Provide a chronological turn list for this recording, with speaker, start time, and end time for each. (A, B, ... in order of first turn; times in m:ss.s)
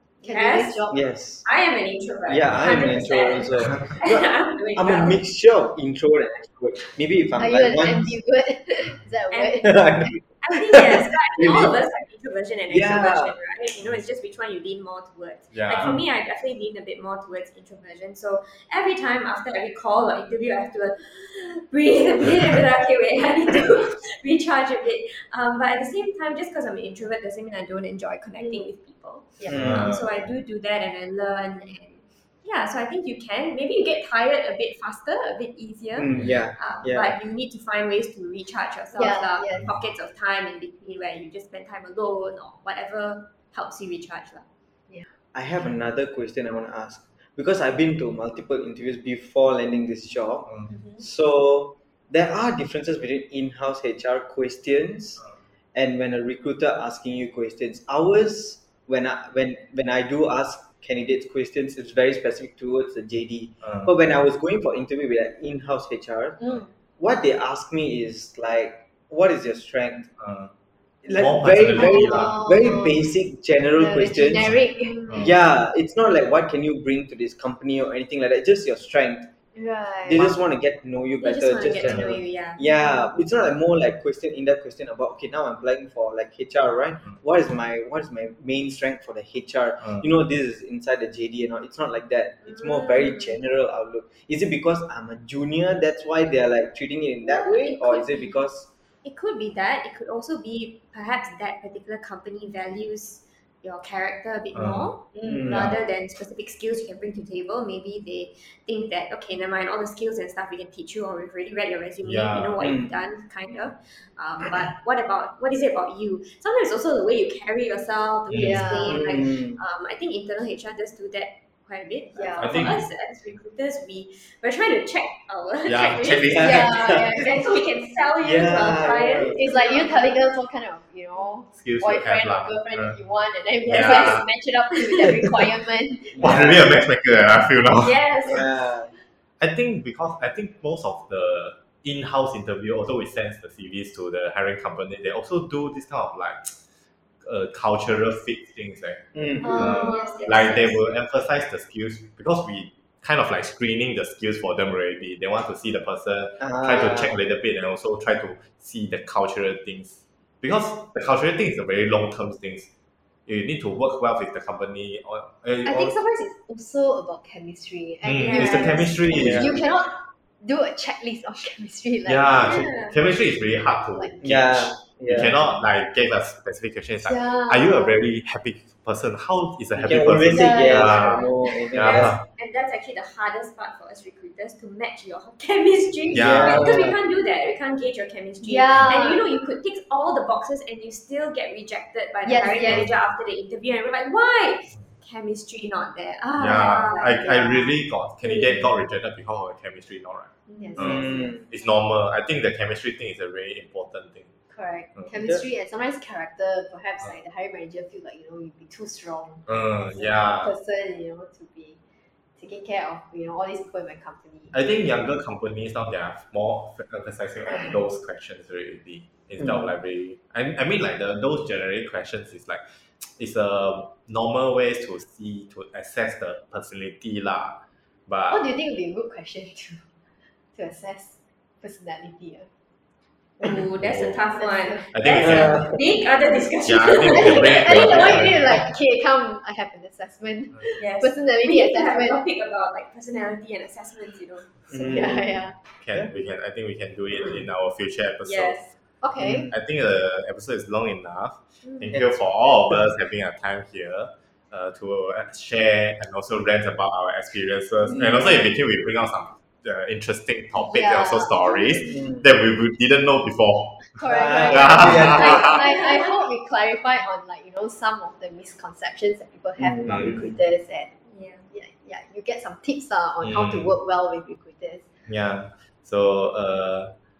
0:00.2-0:01.0 A
0:00.2-0:05.2 B
0:00.9-0:01.4 C
0:02.3-0:08.1 C
0:07.4-0:10.1 A
0:09.3-0:09.7 B
0:09.6-0:11.7 C
0:10.4-0:44.5 B
0:12.7-0:13.4 C
0:15.5-0:16.0 D
0:28.4-0:28.7 A
0:29.4-0:29.8 A
0:29.5-0:29.8 C
0:29.5-0:30.1 D
0:36.0-0:37.2 C
0:39.0-0:39.7 A
0:45.3-1:06.5 C
0:50.7-0:51.0 A
1:03.6-1:03.9 D
1:06.4-1:06.7 A
1:07.0-1:10.1 C
1:10.2-1:10.5 D
1:11.0-1:14.6 C
1:11.1-1:12.5 D
1:11.7-1:13.0 A
1:13.8-1:15.3 A
1:15.1-1:19.3 C
1:19.6-1:20.4 A
1:20.0-1:38.7 C
1:21.2-1:22.6 B
1:22.7-1:23.1 A
1:32.4-1:33.4 B
1:37.2-1:38.4 B
1:39.0-2:10.1 B
1:44.5-1:44.9 D
1:45.2-1:45.5 A
1:45.3-1:45.7 C
1:45.5-1:45.8 D
1:52.0-1:52.8 D
1:52.6-1:52.9 C
1:58.3-1:58.7 D
1:58.3-1:59.2 A
1:58.9-1:59.6 C
2:02.2-2:02.6 A
2:02.4-2:02.8 D
2:05.7-2:06.7 D
2:06.3-2:07.1 C
2:06.4-2:07.4 A
2:08.2-2:09.4 C
2:09.2-2:16.7 A
2:11.5-2:13.0 D
2:13.6-2:15.5 B
2:13.7-2:14.2 D
2:16.2-2:16.7 C
2:16.2-2:18.0 D
2:17.8-2:18.5 B
2:18.3-2:18.9 C
2:19.4-2:26.6 D
2:27.2-2:42.7 D
2:29.2-2:29.7 C
2:29.4-2:30.7 A
2:29.4-2:30.8 B
2:36.4-2:37.2 C
2:43.3-2:46.0 D
2:45.6-2:52.7 A
2:48.0-2:49.6 D
2:48.2-2:49.4 B
2:49.2-2:49.6 C
2:52.0-3:01.2 D
2:52.4-2:53.0 B
2:54.2-2:55.3 C
2:57.1-2:58.0 A
2:59.8-3:02.2 C
3:00.3-3:01.6 A
3:01.4-3:17.7 B
3:01.8-3:02.2 D
3:06.1-3:06.8 D
3:06.2-3:07.0 C
3:08.4-3:09.2 A
3:12.2-3:12.9 A
3:16.4-3:24.3 D
3:20.5-3:21.4 A
3:20.8-3:21.4 C
3:24.5-3:31.8 A
3:29.5-3:30.5 D
3:32.4-3:34.5 A
3:34.5-3:48.4 D
3:48.3-3:49.9 A
3:50.5-3:52.5 A
3:53.4-3:58.4 B
3:53.8-3:54.2 D
3:54.4-3:54.9 A
3:54.9-3:55.7 D
3:55.3-3:55.6 C
3:56.7-3:58.7 D
3:57.1-4:02.2 A
4:00.8-4:05.0 B
4:04.7-4:05.3 C
4:04.7-4:05.6 A
4:05.8-4:08.6 D
4:08.2-4:08.6 B
4:09.0-4:09.5 A
4:09.2-4:09.5 C
4:09.5-4:23.9 D
4:11.6-4:11.9 B
4:20.6-4:22.0 A
4:24.0-4:30.9 A
4:24.0-4:25.6 C
4:24.5-4:25.6 D
4:25.1-4:26.1 B
4:29.6-4:30.1 C
4:29.9-4:30.2 D
4:31.1-4:31.5 B
4:31.5-4:34.8 A
4:33.2-4:33.7 D
4:35.1-4:36.9 D